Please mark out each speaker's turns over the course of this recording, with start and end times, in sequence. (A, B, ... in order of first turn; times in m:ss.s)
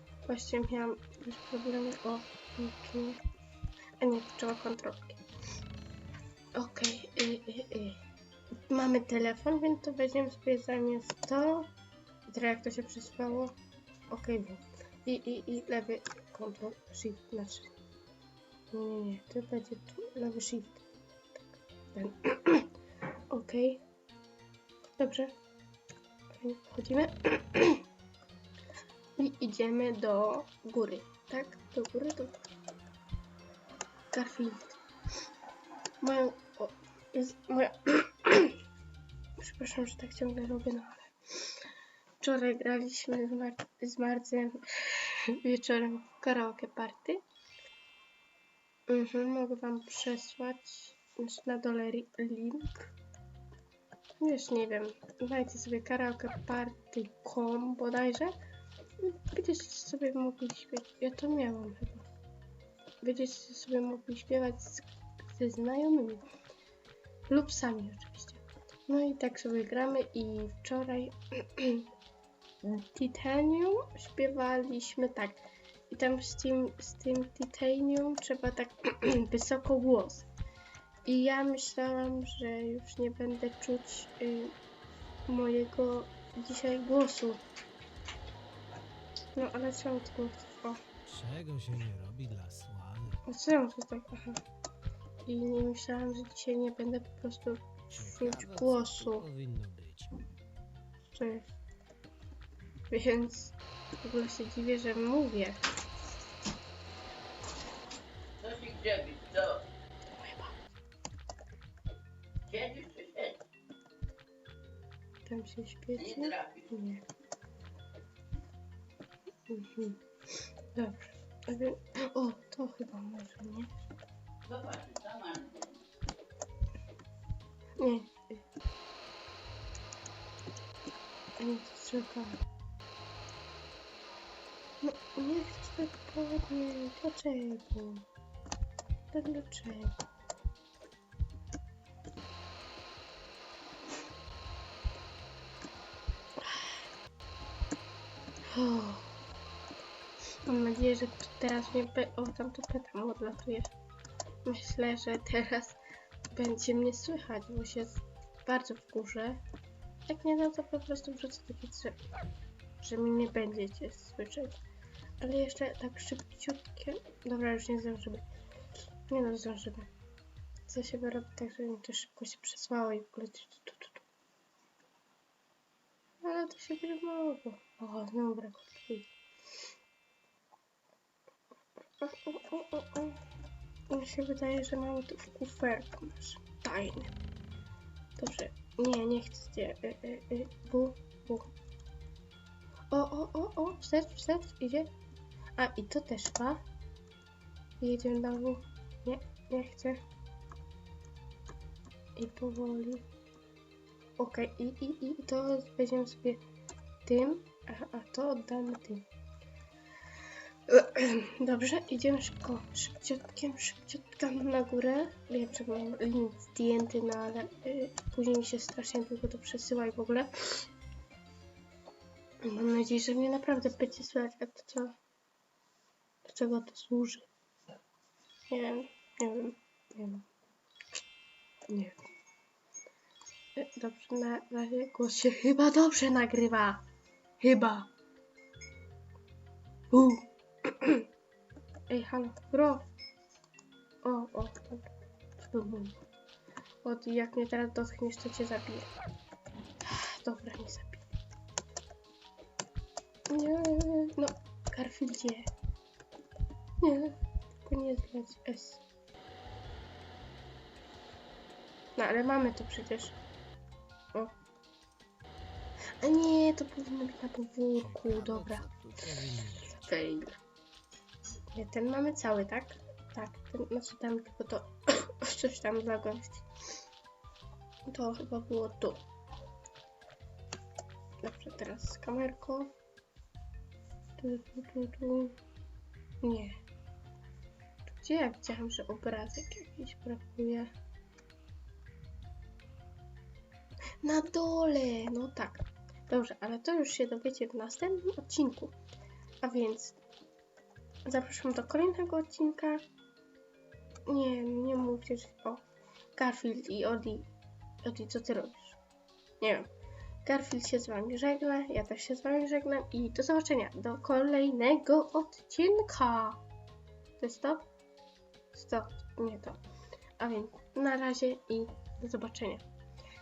0:00.2-0:03.2 A
0:04.0-0:05.2 A
0:06.5-0:08.0 A
0:08.7-0:11.7 A
0:12.3-0:13.6 A
0:14.1-0:17.7 A
0:18.7-0:20.8 A
0:21.9-0:22.7 A
0:23.3-0:23.8 A
0:25.0-0:25.3 A
0:26.3-0:27.8 A
0:29.2-0:32.5 A
0:34.1-0:34.8 A
0:36.0-0:38.6 A
0:39.4-0:41.5 A
0:42.2-0:47.2 A
0:48.9-0:52.9 A
0:54.2-0:58.3 A
0:59.0-1:02.1 A
1:03.0-1:06.2 A
1:07.3-1:11.9 A
1:12.6-1:15.4 A
1:15.9-1:20.3 A
1:21.0-1:24.5 A
1:25.3-1:27.4 A
1:29.3-1:30.8 A
1:31.0-1:33.2 B
1:33.2-1:34.4 A
1:35.2-1:39.3 A
1:37.9-1:40.2 B
1:41.1-1:41.5 A
1:42.9-1:45.6 A
1:48.4-1:49.6 C
1:50.1-1:50.6 A
1:52.5-1:53.4 C
1:55.2-1:57.0 A
1:59.5-2:00.0 A
2:00.7-2:03.7 A
2:04.5-2:05.8 C
2:07.8-2:08.3 A
2:11.4-2:12.4 A
2:14.8-2:18.0 A
2:19.1-2:20.0 A
2:26.4-2:26.8 A
2:28.4-2:29.1 A
2:30.4-2:33.7 A
2:34.4-2:35.8 A
2:36.3-2:39.4 A
2:40.1-2:42.0 A
2:42.8-2:44.6 A
2:45.2-2:48.2 A
2:49.1-2:49.9 A
2:50.7-2:54.0 A
2:56.2-2:59.1 A
3:02.0-3:03.2 A
3:03.9-3:07.1 A
3:08.2-3:11.5 A
3:12.9-3:14.9 A
3:15.6-3:16.6 A
3:17.8-3:20.0 A
3:22.2-3:23.0 A
3:24.2-3:26.4 A
3:27.0-3:29.0 A
3:30.7-3:40.6 A
3:42.4-3:44.9 A
3:46.2-3:47.3 A
3:48.5-3:50.3 A
3:51.7-3:52.0 A
3:53.6-3:56.8 A
3:57.4-3:57.9 A
3:59.9-4:01.1 A
4:01.9-4:02.8 A
4:04.0-4:06.0 A
4:06.8-4:08.9 A
4:09.8-4:11.1 A
4:13.3-4:15.5 A
4:16.8-4:18.8 A
4:22.0-4:23.2 A
4:26.0-4:28.7 A
4:27.8-4:29.8 B
4:29.6-4:30.4 A
4:31.5-4:36.4 A
4:37.9-4:39.0 A
4:41.2-4:42.7 A
4:44.2-4:45.4 A
4:46.2-4:46.6 A
4:47.8-4:50.7 A
4:54.0-4:58.7 A
4:59.4-5:00.0 A
5:01.0-5:02.8 A
5:04.0-5:05.6 A
5:06.1-5:07.3 A
5:07.8-5:08.8 A
5:09.4-5:09.7 A
5:10.2-5:16.4 A
5:17.2-5:17.7 A
5:18.5-5:19.6 A
5:20.2-5:22.6 A